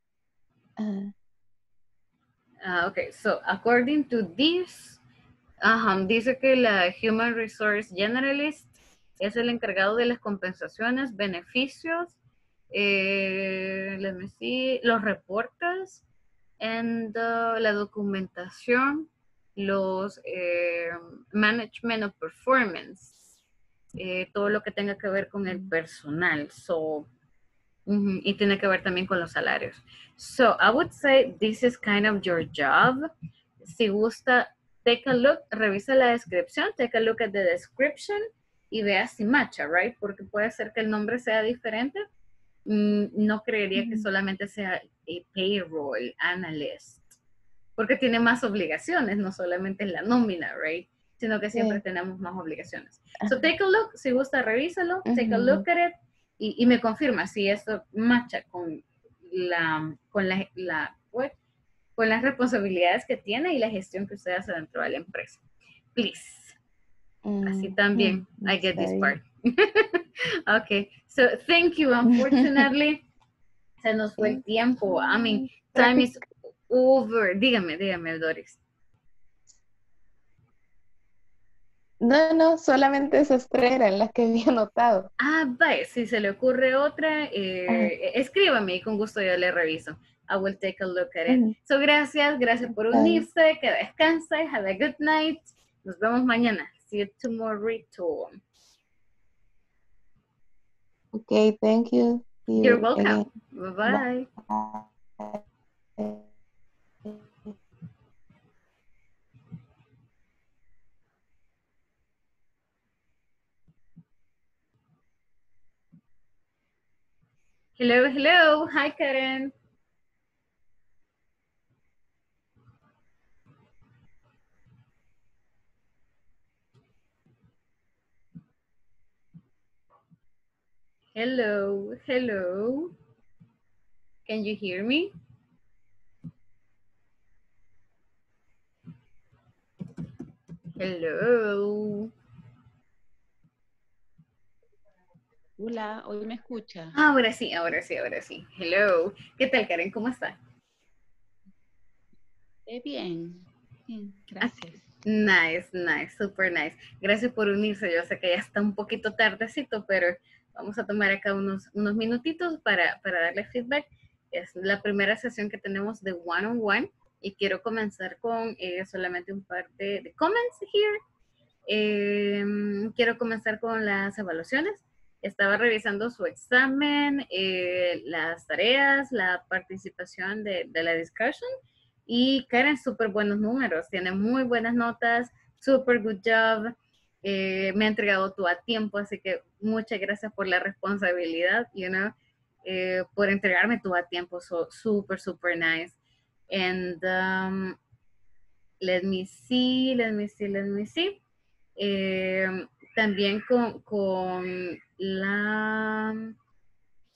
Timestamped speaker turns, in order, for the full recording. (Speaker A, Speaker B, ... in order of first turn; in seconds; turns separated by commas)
Speaker A: 0.8-1.1, Speaker B: 2.6-5.0, Speaker B: 5.6-12.2, Speaker B: 12.7-16.0, Speaker B: 16.6-23.2, Speaker B: 24.0-27.1, Speaker B: 27.9-33.0, Speaker B: 33.6-42.0, Speaker B: 42.7-47.2, Speaker A: 43.8-44.1, Speaker B: 47.8-61.3, Speaker A: 51.5-51.8, Speaker A: 55.1-55.6, Speaker B: 62.0-65.4, Speaker B: 66.0-66.6, Speaker A: 67.2-69.2, Speaker B: 67.4-73.0, Speaker A: 72.1-72.7, Speaker B: 73.8-78.6, Speaker A: 74.2-76.2, Speaker A: 82.0-85.1, Speaker B: 85.2-98.4, Speaker A: 91.3-91.5, Speaker A: 92.8-93.3, Speaker A: 101.1-103.3, Speaker B: 102.6-104.3, Speaker A: 103.9-105.4, Speaker A: 106.0-106.2, Speaker A: 107.1-107.5, Speaker B: 117.8-119.5, Speaker B: 131.2-132.9, Speaker B: 134.3-135.1, Speaker B: 140.8-142.1, Speaker C: 145.6-146.9, Speaker B: 146.9-150.4, Speaker C: 152.7-154.8, Speaker B: 155.1-171.0, Speaker B: 171.7-181.5, Speaker B: 182.1-192.1, Speaker B: 192.6-196.0, Speaker B: 196.5-197.8, Speaker B: 198.8-201.2, Speaker B: 201.8-206.3